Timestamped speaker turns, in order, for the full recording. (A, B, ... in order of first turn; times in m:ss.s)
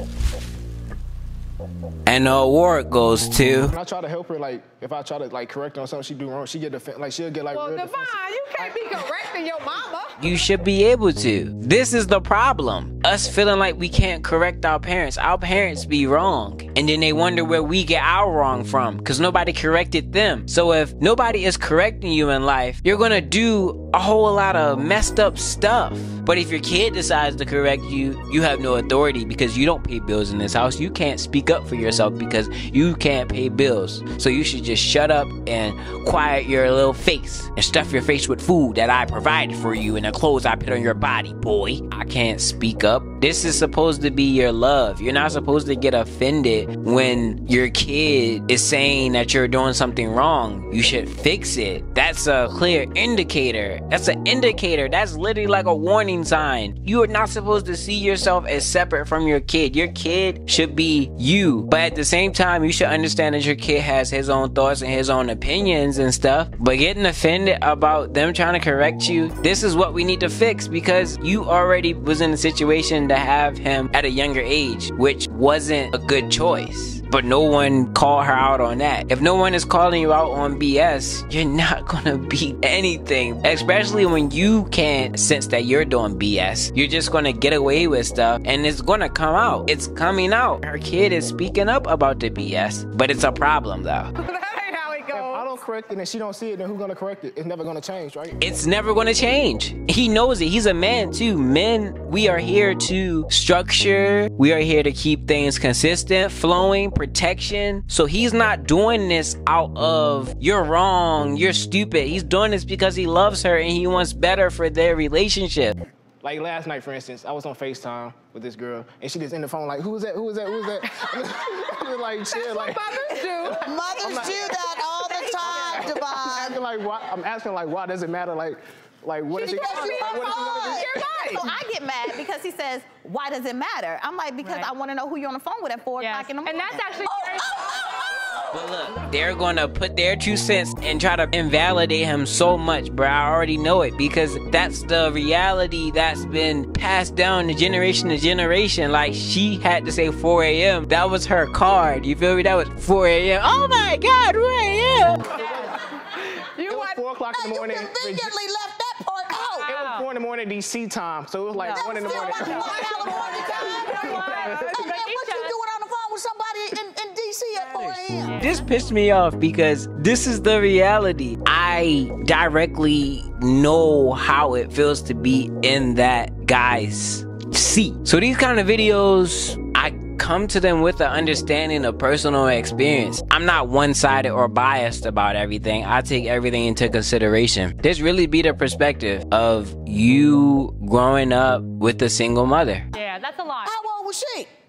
0:02.0-0:03.7 A
0:03.7-0:09.0 B
0:07.5-0:10.3 C
0:10.2-1:34.1 A
1:34.2-1:35.5 C
1:35.1-1:38.4 B
1:38.4-1:55.8 A
1:56.2-2:04.6 B
2:02.3-2:03.7 C
2:03.6-2:06.6 D
2:04.2-2:06.4 E
2:05.3-2:11.4 B
2:09.3-2:10.7 D
2:09.4-2:11.4 C
2:10.0-2:17.0 E
2:14.4-2:14.7 F
2:16.0-2:17.6 F
2:17.0-2:18.5 D
2:18.5-2:35.3 A
2:35.4-2:35.8 F
2:36.1-2:37.0 C
2:36.7-2:38.4 B
2:37.3-2:39.7 D
2:39.5-2:44.8 B
2:39.7-2:40.1 F
2:41.5-2:43.6 E
2:41.7-2:48.4 D
2:42.2-2:42.8 F
2:43.5-2:45.6 F
2:47.8-3:12.8 A
2:48.2-2:48.9 F
3:12.9-3:13.8 F
3:13.6-3:14.5 D